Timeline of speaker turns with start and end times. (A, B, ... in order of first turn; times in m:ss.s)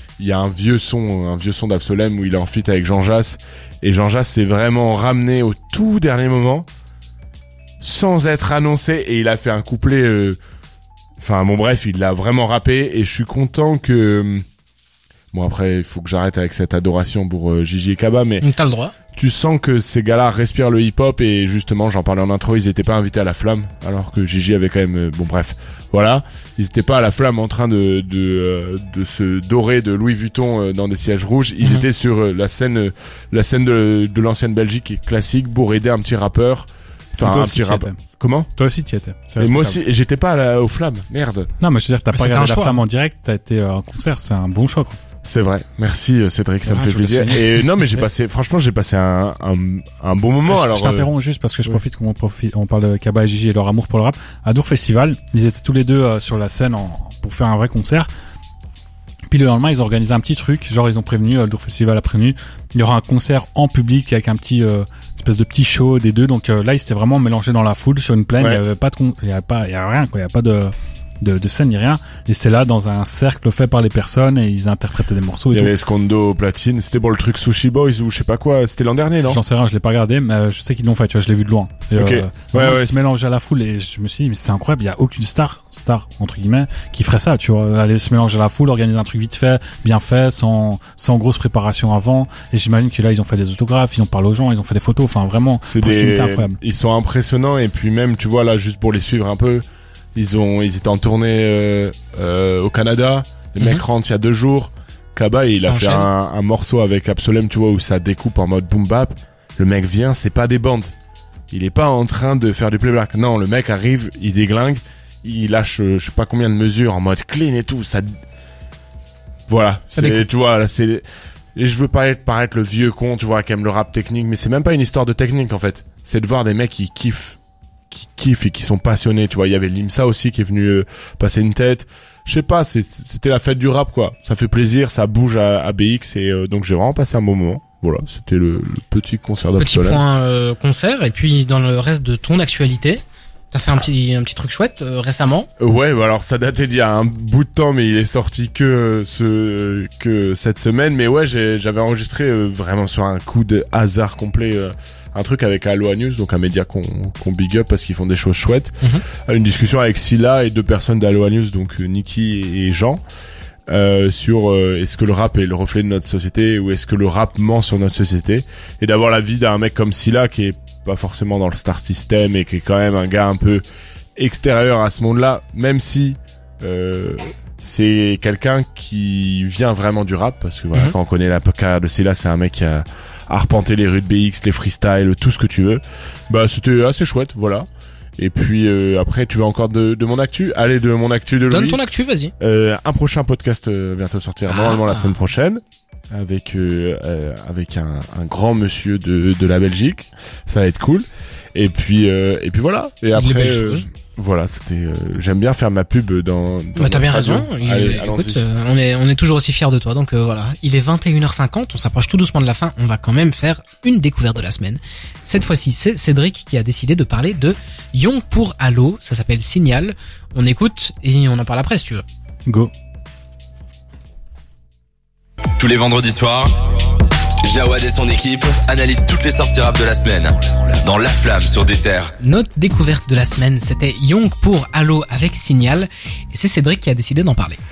0:00.2-0:06.7 A
0:07.8-0:10.4 A
0:11.2-0:14.4 A
0:15.3-0:18.5 A
0:18.4-0:18.9 B
0:19.1-0:38.5 A
0:37.2-0:38.0 C
0:38.5-0:39.8 C
0:39.4-0:41.5 A
0:41.6-0:45.0 C
0:42.1-0:42.8 B
0:45.2-0:51.1 A
0:46.6-0:47.6 C
0:50.5-0:58.1 C
0:59.3-1:15.7 C
1:15.5-1:19.4 A
1:19.2-1:36.6 C
1:22.0-1:23.0 A
1:35.6-1:39.6 A
1:40.1-1:50.9 A
1:43.6-1:43.8 B
1:45.6-1:46.1 B
1:51.5-1:58.1 A
1:59.5-2:01.0 A
1:59.9-2:00.2 B
2:01.6-2:07.4 A
2:07.9-2:20.0 A
2:19.6-2:25.5 B
2:25.6-2:43.0 A
2:43.7-2:53.6 A
2:54.2-3:07.6 A
3:08.2-3:11.8 A
3:11.5-3:12.3 B
3:12.4-3:28.5 A
3:14.5-3:15.2 B
3:23.2-3:23.8 B
3:26.8-3:42.0 B
3:42.5-3:42.7 C
3:45.6-3:46.5 D
3:47.4-3:52.1 D
3:52.2-3:57.6 B